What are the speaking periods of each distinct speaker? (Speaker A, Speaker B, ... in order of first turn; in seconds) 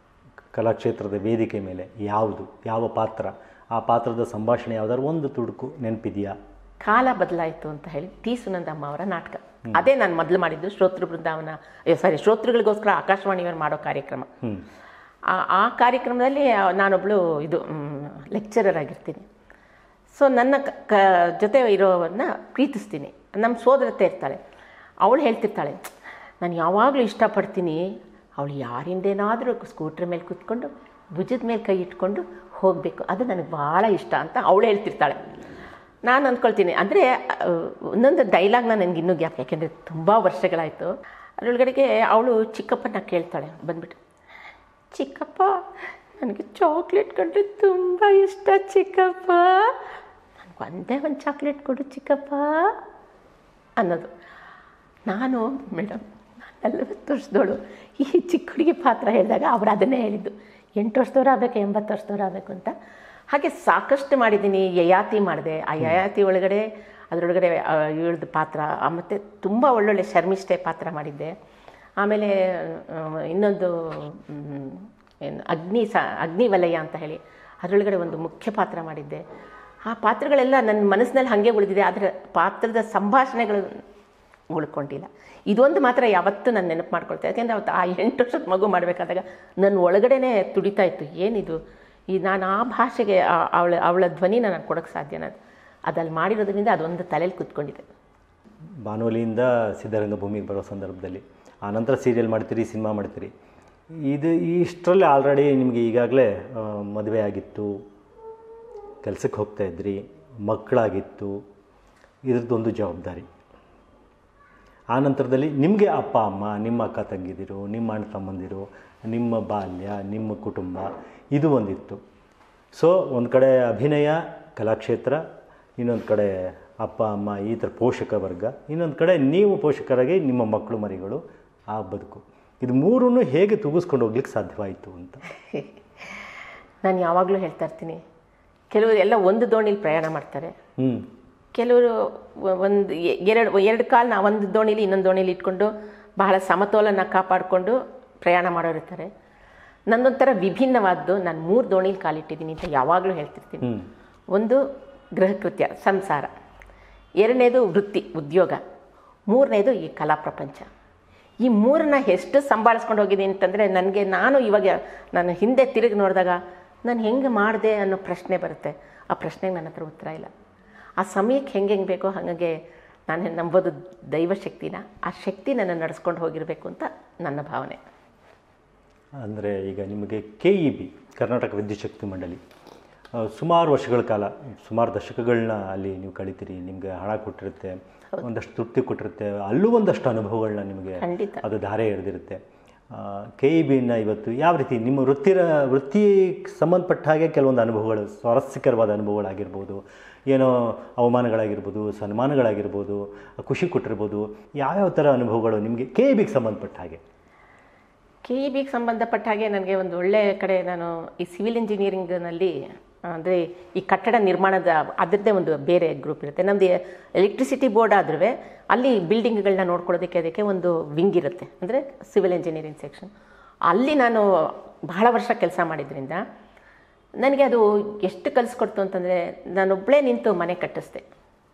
Speaker A: 0.5-6.4, 98.9-103.3, 104.1-107.8, 109.0-111.4, 112.3-113.3, 114.9-122.0, 122.7-125.2, 125.8-135.2, 140.8-141.1, 179.2-182.4, 183.2-192.4, 192.9-207.0
Speaker B: 6.8-14.3, 15.3-19.3, 20.1-24.4, 25.0-25.9, 26.4-35.2, 36.1-44.0, 44.9-45.6, 46.2-49.8, 50.4-52.8, 53.8-54.1, 55.1-62.7, 63.3-71.3, 72.0-79.2, 79.9-83.7, 84.5-91.6, 92.1-95.4, 95.9-97.9, 135.5-138.0, 138.7-140.5, 141.6-149.1, 149.9-153.8, 154.3-154.6, 155.2-156.3, 157.2-158.6, 159.3-160.7, 161.4-170.3, 171.0-177.8, 191.0-191.4, 208.3-212.5, 213.1-223.1, 223.7-224.2, 224.9-226.2, 227.2-231.0